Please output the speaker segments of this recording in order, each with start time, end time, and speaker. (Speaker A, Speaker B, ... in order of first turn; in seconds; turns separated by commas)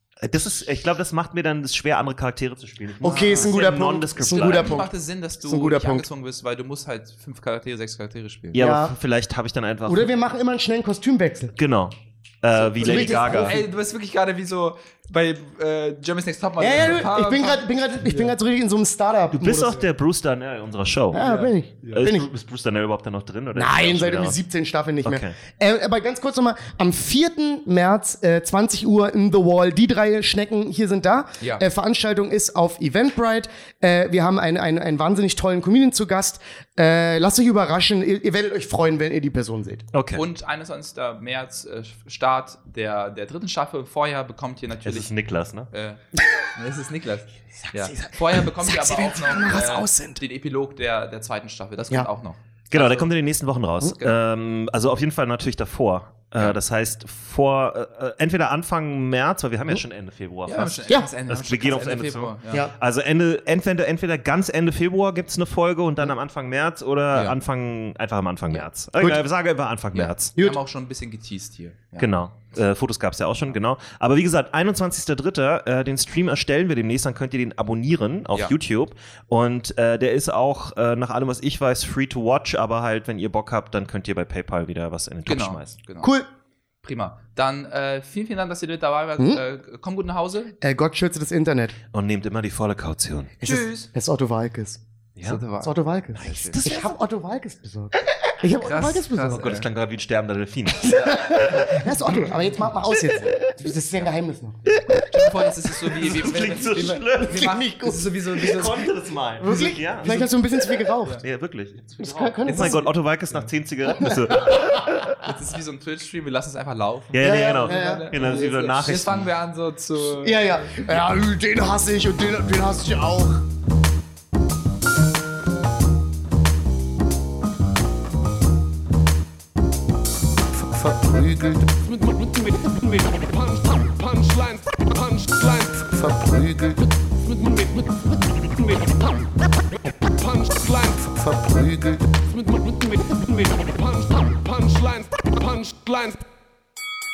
Speaker A: 0.2-4.9, Speaker B: 3.0-6.1, Speaker C: 3.1-8.7, Speaker A: 8.5-10.1, Speaker B: 8.6-8.9, Speaker B: 9.9-11.6, Speaker A: 11.6-13.6, Speaker B: 12.8-13.6, Speaker C: 12.8-18.3, Speaker B: 16.6-19.8, Speaker A: 19.3-21.2, Speaker B: 21.1-22.3, Speaker C: 21.2-22.1, Speaker A: 21.9-24.4, Speaker B: 23.5-39.9, Speaker A: 25.1-25.4, Speaker C: 31.4-31.6, Speaker A: 39.9-40.3, Speaker C: 40.1-45.1, Speaker A: 44.9-45.7, Speaker C: 45.7-46.0, Speaker C: 46.5-53.1, Speaker B: 47.7-50.2, Speaker A: 52.7-70.3, Speaker C: 60.5-62.7, Speaker C: 69.9-72.1, Speaker A: 72.0-85.7, Speaker C: 85.3-86.1, Speaker B: 86.0-86.3, Speaker C: 86.8-90.6, Speaker B: 90.6-91.8, Speaker A: 91.9-93.4, Speaker B: 93.4-94.8, Speaker C: 93.4-93.9, Speaker C: 95.2-96.6, Speaker B: 95.6-99.4, Speaker A: 96.2-96.9, Speaker C: 98.6-99.7, Speaker A: 99.3-101.9, Speaker B: 100.8-104.7, Speaker C: 100.9-101.6, Speaker C: 105.1-110.3, Speaker A: 105.9-107.6, Speaker B: 107.1-108.3, Speaker A: 108.3-110.1, Speaker B: 109.4-111.2, Speaker A: 111.2-115.2, Speaker C: 112.0-113.5, Speaker B: 112.0-112.9, Speaker B: 114.0-114.8, Speaker C: 114.1-121.0, Speaker A: 117.1-119.3, Speaker B: 117.2-118.2, Speaker B: 120.1-123.4, Speaker D: 131.1-139.3, Speaker D: 140.1-146.2